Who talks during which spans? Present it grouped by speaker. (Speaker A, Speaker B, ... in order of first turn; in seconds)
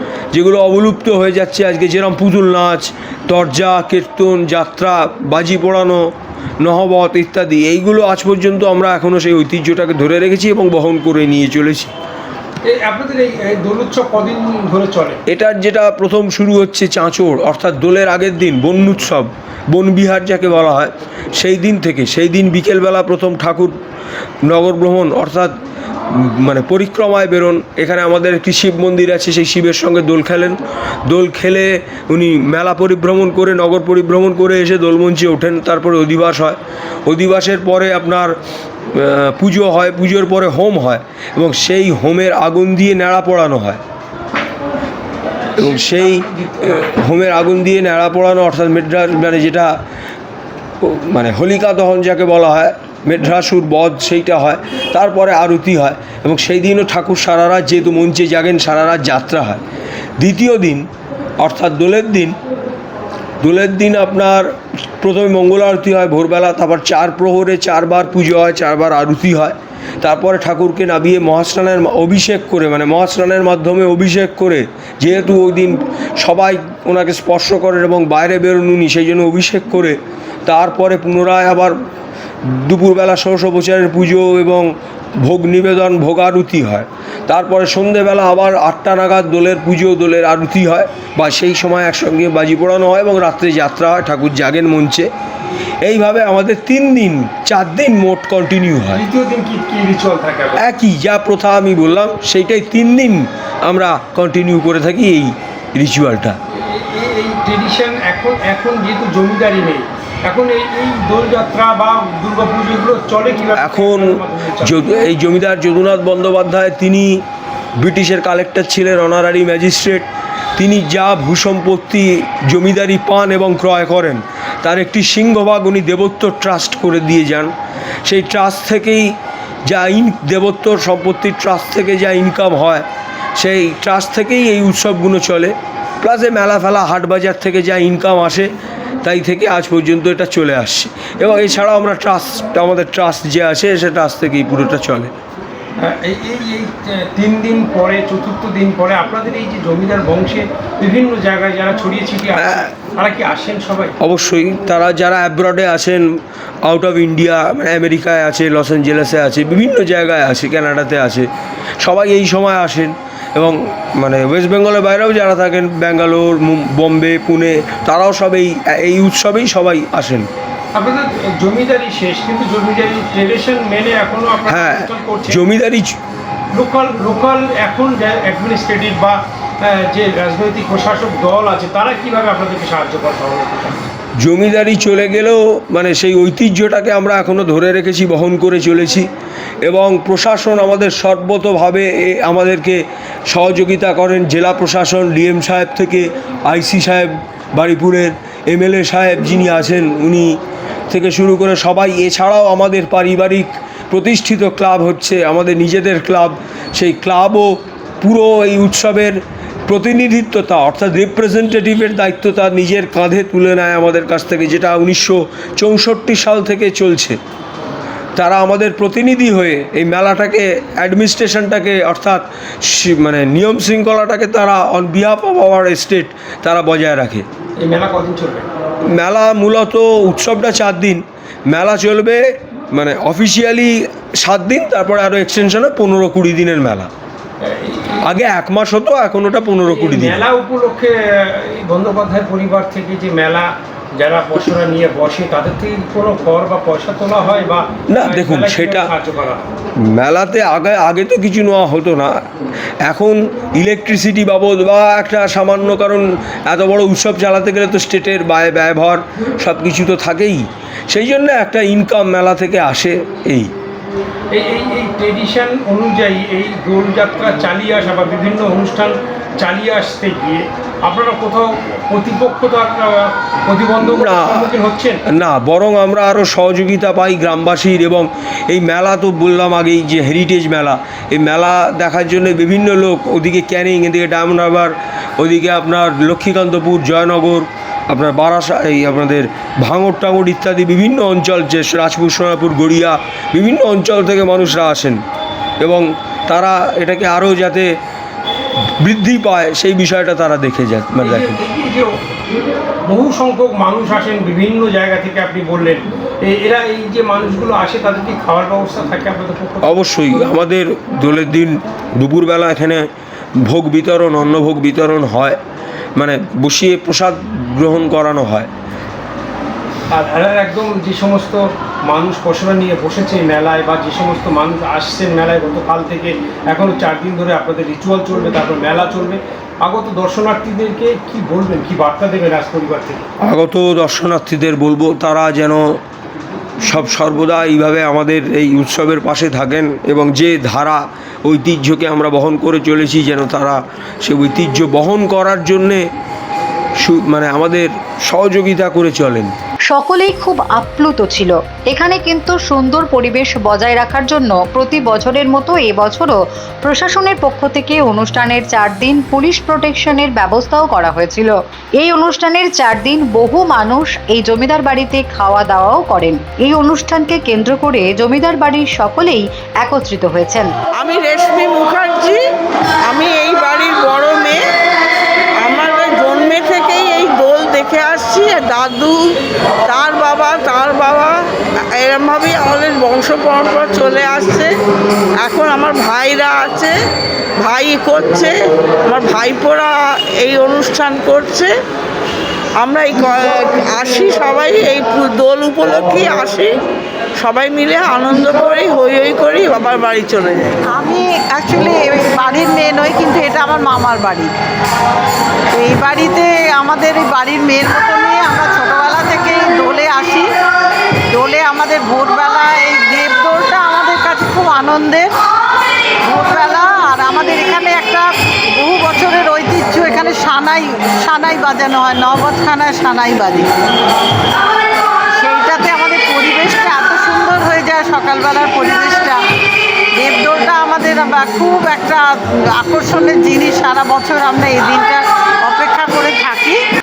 Speaker A: 0.3-6.0, 6.6-11.9, 15.3-23.7, 24.4-25.5, 26.1-38.3, 38.9-43.8, 45.6-49.7, 50.8-59.6, 60.2-60.8, 61.4-62.4, 63.4-64.4, 65.0-81.7, 82.4-84.7, 85.2-95.1, 95.8-99.0, 100.6-106.4, 113.6-117.2, 117.8-127.5, 128.1-129.1, 129.7-132.8, 133.4-138.5, 139.0-145.1, 152.3-152.7, 154.0-156.0, 156.7-161.3, 161.8-170.3, 174.4-176.0, 184.2-189.1, 189.6-200.4, 200.9-217.2, 218.2-227.2, 228.9-236.9, 238.0-240.2, 247.9-248.9, 249.8-252.2, 252.8-263.5, 273.8-274.5, 275.1-295.0, 295.6-297.7, 298.8-301.4, 309.6-312.8, 313.4-315.4, 316.0-318.5, 333.2-335.8, 336.6-345.9, 346.8-349.3
Speaker B: 12.7-15.2, 45.5-46.8, 98.9-100.6, 106.6-114.8, 145.8-153.9, 170.7-175.4, 176.5-183.9, 227.6-228.5, 237.4-238.1, 239.7-249.4, 264.3-275.0, 301.0-301.9, 302.9-310.3, 319.9-333.1
Speaker C: 349.7-370.5
Speaker D: 370.8-372.2, 372.8-374.5, 375.4-384.6, 385.2-386.8, 387.4-391.6, 392.6-396.6, 397.2-400.6
Speaker E: 400.6-404.3, 405.5-410.3, 411.1-415.1, 416.1-423.5, 425.1-429.2, 430.0-436.6